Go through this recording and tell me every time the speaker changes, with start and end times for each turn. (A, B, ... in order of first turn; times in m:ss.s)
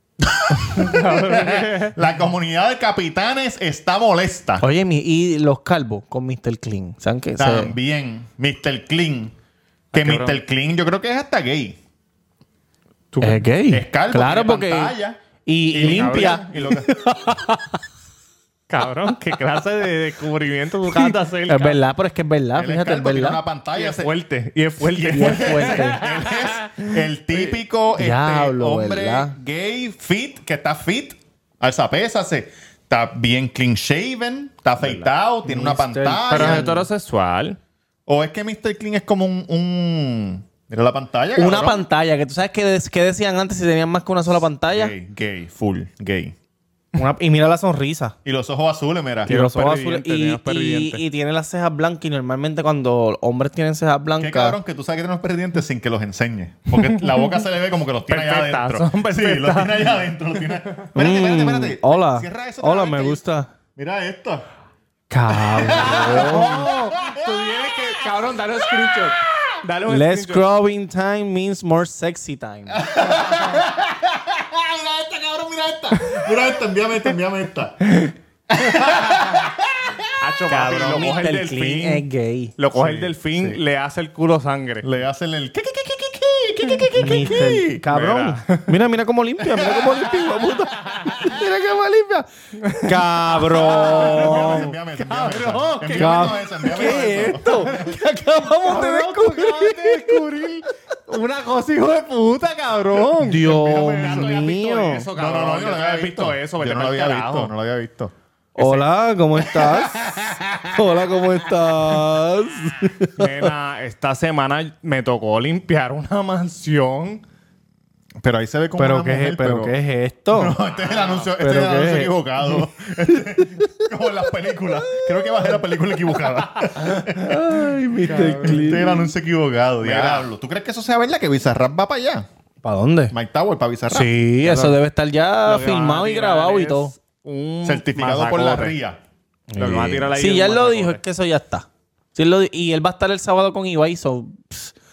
0:00.2-0:04.6 A
0:00.6-0:02.0 B
0:04.6-0:07.8 C
0:07.4-0:09.3 A
0:09.9-0:10.4 B
0:09.9-0:11.8 A
0:13.1-0:13.4 B
0:13.2-0:17.8 C
0:13.7-0:16.9 A
0:15.8-0:16.5 B
0:18.7-0:21.8 B
0:20.8-0:23.4 C
0:22.6-0:24.1 A
0:23.8-0:26.9 B
0:24.8-0:36.7 A
0:25.1-0:26.0 C
0:28.0-0:29.4 C
0:35.4-0:36.9 C
0:36.3-0:37.6 B
0:38.1-0:41.8 A
0:41.4-0:45.0 C
0:44.7-0:46.4 A
0:47.0-0:48.2 C
0:48.2-0:49.3 A
0:49.3-0:54.6 C
0:49.3-0:51.0 B
0:54.2-1:03.2 A
0:58.1-1:00.0 B
1:01.0-1:03.5 C
1:03.8-1:04.4 A
1:05.1-1:06.8 C
1:05.3-1:08.0 A
1:06.0-1:10.5 B
1:09.9-1:12.8 C
1:12.7-1:17.9 A
1:18.5-1:21.0 A
1:18.8-1:19.0 B
1:20.2-1:22.0 B
1:20.5-1:22.6 C
1:22.6-1:24.9 B
1:22.8-1:23.6 A
1:24.8-1:27.8 A
1:27.0-1:32.3 C
1:27.9-1:28.7 B
1:29.4-1:31.4 A
1:32.6-1:37.8 B
1:32.8-1:34.7 C
1:33.4-1:37.9 A
1:35.9-1:40.2 C
1:38.6-1:47.5 B
1:43.2-1:45.1 C
1:43.4-1:44.4 A
1:45.2-1:48.1 A
1:48.6-1:53.4 C
1:48.6-1:48.8 B
1:49.6-1:50.7 A
1:53.2-1:57.2 B
1:58.2-1:59.8 A
1:58.8-2:00.6 C
2:00.3-2:07.6 A
2:00.7-2:01.3 B
2:01.4-2:03.7 C
2:06.8-2:09.1 C
2:08.0-2:08.8 B
2:08.4-2:12.3 A
2:09.8-2:10.2 B
2:12.6-2:13.1 C
2:13.1-2:14.1 A
2:13.9-2:16.9 C
2:14.4-2:14.8 B
2:15.4-2:18.8 B
2:17.6-2:19.0 A
2:19.5-2:24.7 C
2:19.6-2:21.0 B